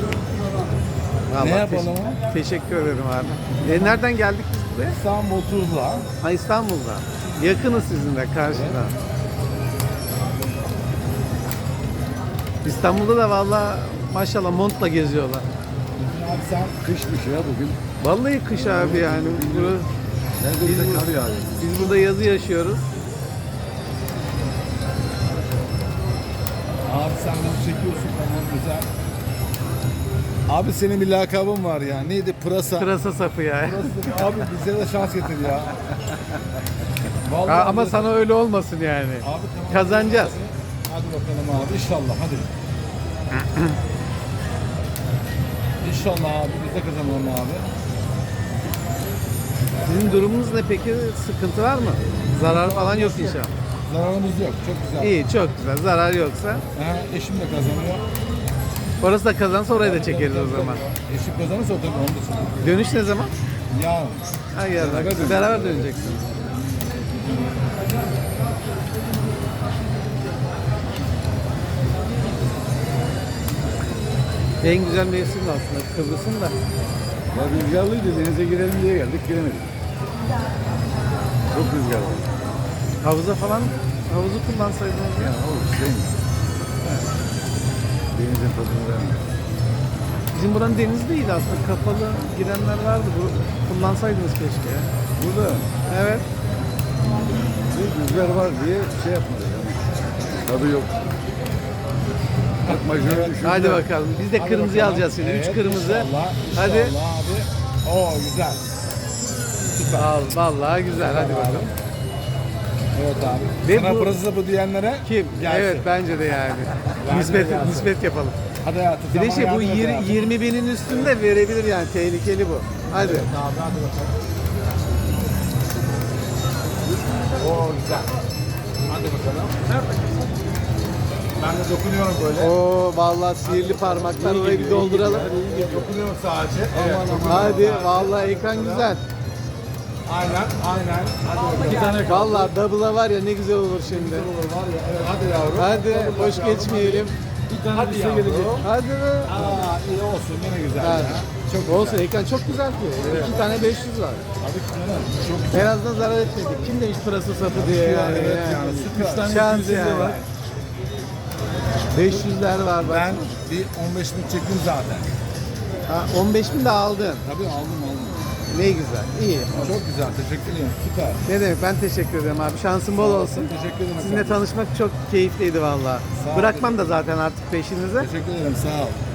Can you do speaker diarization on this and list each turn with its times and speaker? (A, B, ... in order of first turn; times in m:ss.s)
0:01.3-0:05.0 A
0:01.4-0:02.2 B
0:03.6-0:04.0 B
0:04.9-0:06.1 B
0:06.2-0:08.9 A
0:08.5-0:08.8 B
0:12.6-0:15.4 A
0:16.0-0:16.8 B
0:16.8-0:17.8 C
0:18.0-0:19.9 A
0:18.6-0:19.3 B
0:18.7-0:19.8 C
0:20.4-0:21.8 C
0:20.6-0:22.9 A
0:26.9-0:28.9 B
0:30.5-0:32.9 B
0:32.8-0:34.4 A
0:33.6-0:35.8 B
0:37.2-0:38.2 B
0:37.5-0:40.4 A
0:39.2-0:42.5 B
0:43.3-0:43.8 A
0:45.8-0:47.7 B
0:49.8-0:53.5 A
0:52.4-0:55.1 B
0:55.0-0:56.6 A
0:56.7-0:58.0 B
0:59.0-1:00.8 A
0:59.7-1:02.7 B
1:02.6-1:03.3 A
1:03.7-1:04.3 B
1:04.5-1:06.2 A
1:04.8-1:06.2 C
1:04.8-1:05.3 B
1:14.6-1:16.5 A
1:17.3-1:19.7 C
1:21.5-1:22.3 C
1:23.0-1:25.4 A
1:25.2-1:26.1 C
1:28.1-1:29.2 C
1:30.3-1:34.9 A
1:35.2-1:35.7 C
1:35.9-1:36.2 A
1:37.6-1:41.0 C
1:42.6-1:48.7 B
1:42.6-1:43.8 C
1:43.4-1:46.9 A
1:49.6-1:50.1 B
1:49.9-1:51.7 A
1:50.9-1:51.7 B
1:52.9-1:55.9 B
1:53.6-1:54.2 A
1:55.0-1:58.4 A
1:56.9-1:57.9 B
1:58.6-2:00.3 B
1:59.1-2:03.3 A
2:00.8-2:01.2 B
2:02.9-2:04.1 B
2:07.4-2:08.1 B
2:08.9-2:09.8 B
2:11.4-2:12.6 B
2:12.4-2:15.5 A
2:13.4-2:18.9 B
2:15.5-2:15.9 C
2:16.8-2:19.0 A
2:16.9-2:17.3 C
2:20.0-2:22.5 B
2:21.5-2:24.3 A
2:23.8-2:28.7 B
2:25.5-2:27.2 A
2:27.7-2:29.6 A
2:29.2-2:32.1 B
2:30.8-2:34.2 A
2:33.0-2:33.6 B
2:34.4-2:35.7 B
2:35.5-2:40.2 A
2:37.4-2:39.7 B
2:41.9-2:43.3 A
2:42.8-2:45.1 B
2:45.9-2:47.2 A
2:47.2-2:48.2 B
2:48.5-2:49.7 A
2:49.5-2:51.2 B
2:51.2-2:58.1 A
2:52.9-2:54.4 B
2:56.1-2:56.9 B
2:58.0-2:59.0 B